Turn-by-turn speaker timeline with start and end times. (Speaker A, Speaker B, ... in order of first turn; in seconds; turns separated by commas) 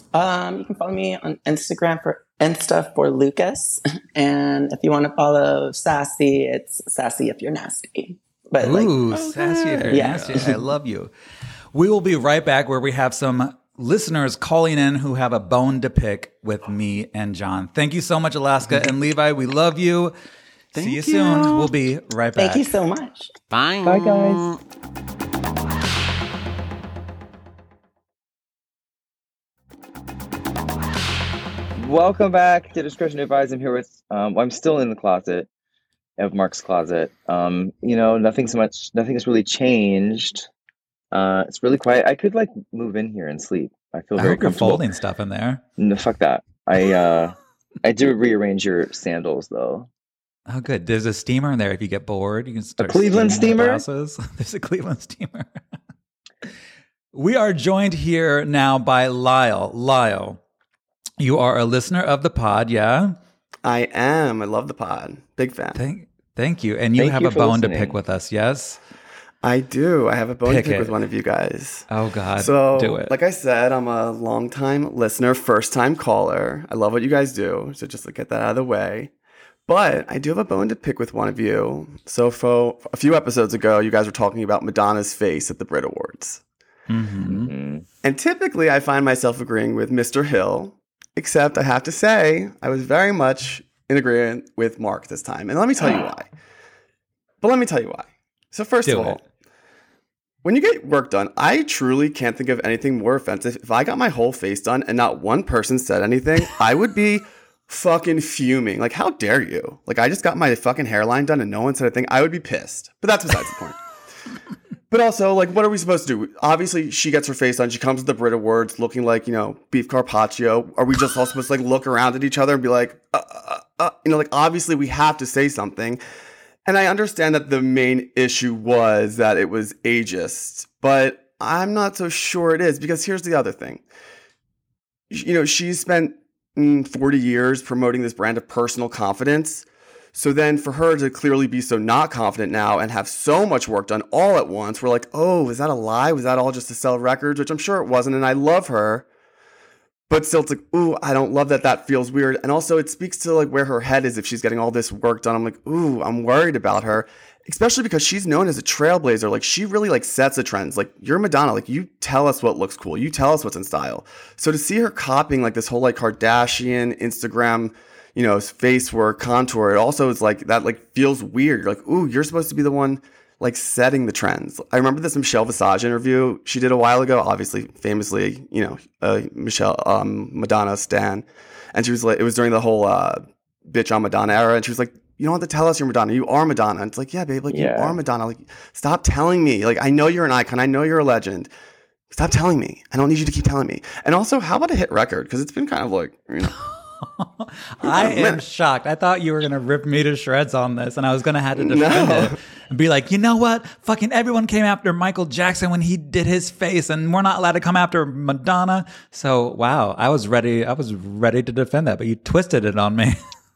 Speaker A: 0.1-9.0, Speaker B: 8.6-11.1, Speaker C: 9.1-10.3, Speaker A: 9.9-10.6, Speaker B: 11.7-20.1, Speaker B: 20.7-22.7, Speaker C: 20.7-21.7, Speaker A: 22.4-23.3, Speaker C: 23.5-24.6, Speaker D: 23.9-24.5, Speaker D: 31.8-35.5, Speaker D: 36.2-40.5, Speaker D: 41.1-44.9, Speaker B: 44.2-45.6, Speaker D: 45.8-49.9, Speaker B: 50.5-55.6, Speaker D: 52.8-53.8, Speaker B: 57.1-60.4, Speaker B: 61.2-63.2, Speaker E: 63.6-65.8, Speaker B: 65.8-68.8, Speaker D: 67.0-68.0, Speaker E: 69.4-71.9, Speaker B: 70.5-71.0, Speaker B: 71.9-73.1, Speaker E: 72.4-79.1, Speaker E: 79.7-86.4, Speaker B: 86.9-87.5, Speaker D: 87.2-87.8, Speaker E: 88.0-96.3, Speaker E: 97.4-99.2, Speaker B: 98.8-99.2, Speaker E: 100.4-113.8, Speaker E: 114.9-126.0, Speaker E: 126.7-133.8, Speaker E: 135.1-149.1, Speaker E: 150.1-191.5, Speaker D: 187.5-188.0, Speaker E: 192.1-196.6, Speaker B: 197.0-213.2, Speaker E: 197.8-198.4, Speaker E: 201.6-202.4